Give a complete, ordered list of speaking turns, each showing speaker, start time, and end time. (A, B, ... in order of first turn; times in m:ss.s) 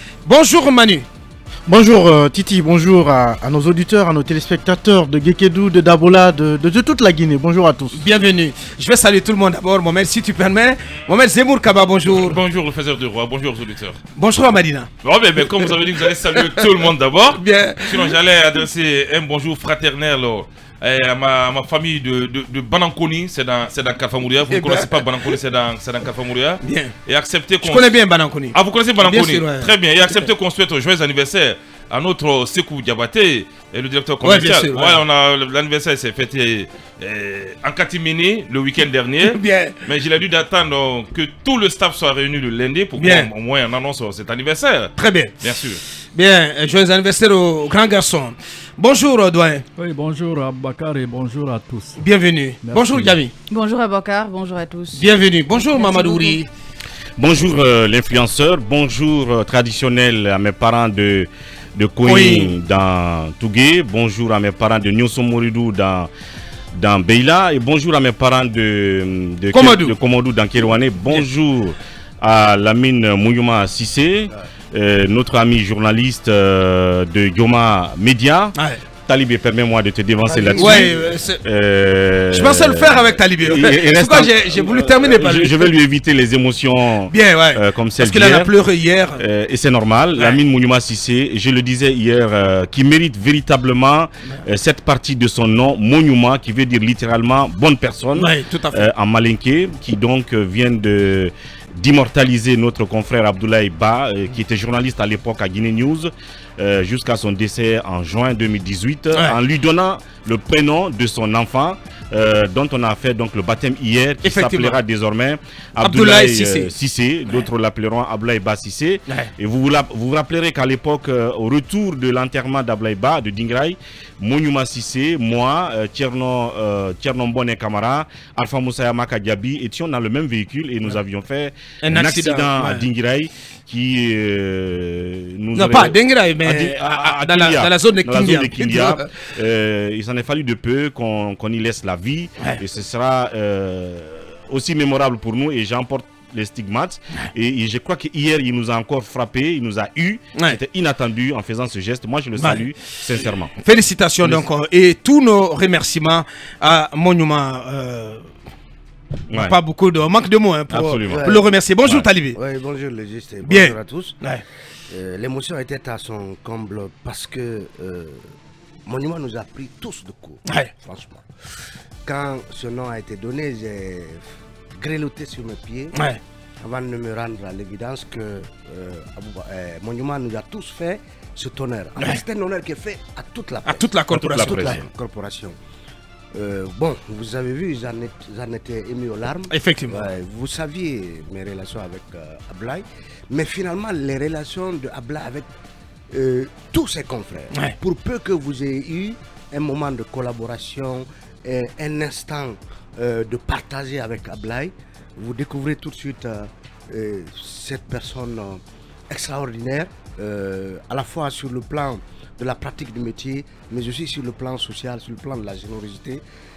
0:00.2-0:01.1 A
0:01.7-0:08.0 B
0:07.9-0:12.4 A
0:12.1-0:14.0 C
0:14.2-0:14.9 A
0:15.0-0:27.9 C
0:15.4-0:15.8 A
0:16.3-0:16.8 A
0:17.3-0:18.2 A
0:24.5-0:25.0 A
0:26.6-0:26.9 A
0:27.6-0:30.2 A
0:28.5-0:45.8 C
0:34.2-0:35.0 A
0:39.2-0:39.8 A
0:43.0-0:43.3 A
0:45.0-0:45.4 A
0:46.1-0:49.6 A
0:49.8-0:52.1 D
0:52.0-0:53.3 A
0:52.6-0:53.2 D
0:53.5-0:56.4 E
0:54.9-0:56.5 A
0:57.2-1:06.1 F
1:02.0-1:02.5 A
1:06.8-1:18.6 F
1:09.5-1:09.9 A
1:18.6-1:18.8 A
1:19.1-1:28.5 F
1:20.3-1:21.1 G
1:20.6-1:21.4 A
1:22.3-1:25.7 A
1:27.1-1:29.2 A
1:29.2-2:33.5 F
1:38.2-1:38.9 A
1:54.2-1:54.8 A
1:55.8-1:56.7 A
2:11.8-2:12.9 A
2:15.6-2:19.1 A
2:32.4-2:32.7 A
2:33.6-2:38.3 A
2:39.3-2:39.6 F
2:39.3-2:42.4 A
2:40.7-2:41.3 F
2:41.1-2:41.5 G
2:42.3-2:44.2 G
2:43.4-2:44.4 A
2:44.9-2:48.2 G
2:48.9-2:51.2 G
2:52.0-2:54.2 G
2:54.8-2:56.0 G
2:55.9-2:56.2 A
2:56.6-3:05.6 G
3:03.6-3:04.8 A
3:04.1-3:04.8 F
3:06.3-3:15.5 G
3:09.5-3:10.1 A
3:16.1-3:36.2 G